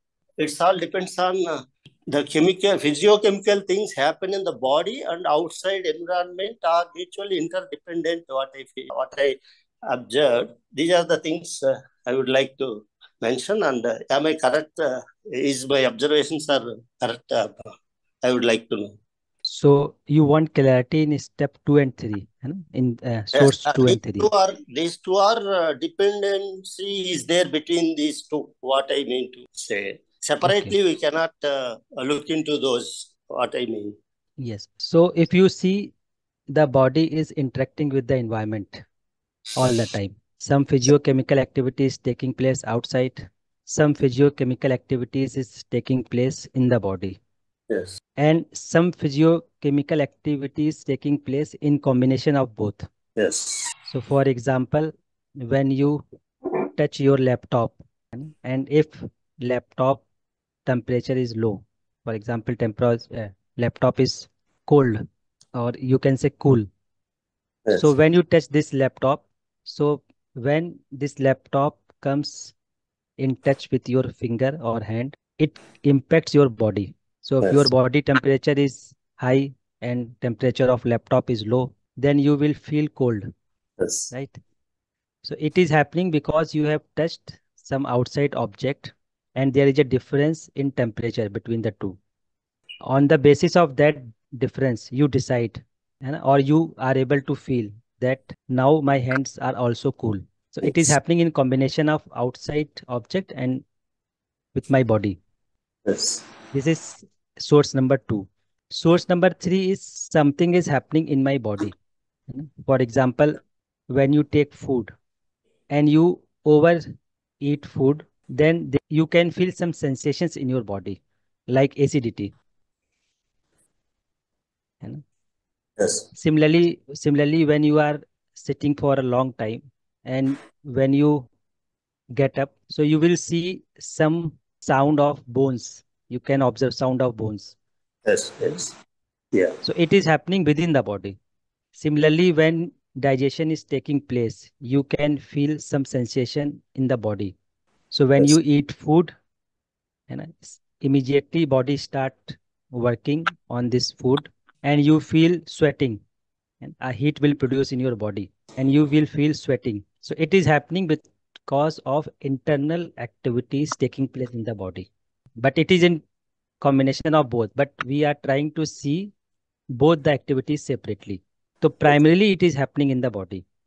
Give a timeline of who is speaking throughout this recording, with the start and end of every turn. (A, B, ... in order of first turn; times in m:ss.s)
0:00.4-0:19.0 A
0:19.4-0:24.3 B
0:23.3-0:34.0 A
0:30.4-0:30.7 B
0:34.4-0:35.9 B
0:36.5-0:38.8 B
0:39.6-0:47.2 B
0:48.2-0:52.9 B
0:53.2-0:53.7 A
0:53.9-0:56.0 B
0:56.8-1:00.0 B
1:00.6-1:06.7 B
1:07.7-1:12.5 B
1:13.2-1:23.3 B
1:23.8-1:24.1 A
1:24.1-1:24.4 B
1:25.2-1:32.0 B
1:32.8-1:43.6 B
1:44.5-1:45.2 B
1:45.8-1:46.2 A
1:46.5-1:51.8 B
1:52.3-1:54.9 B
1:55.7-1:56.8 B
1:57.4-2:02.3 B
2:05.8-2:06.0 A
2:06.1-2:11.3 B
2:12.1-2:17.5 B
2:18.0-2:18.7 A
2:19.3-2:19.6 A
2:19.6-2:21.2 B
2:21.7-2:27.4 B
2:27.9-2:29.1 B
2:30.1-2:36.0 B
2:36.6-2:46.0 B
2:46.6-2:49.1 B
2:49.7-2:53.4 B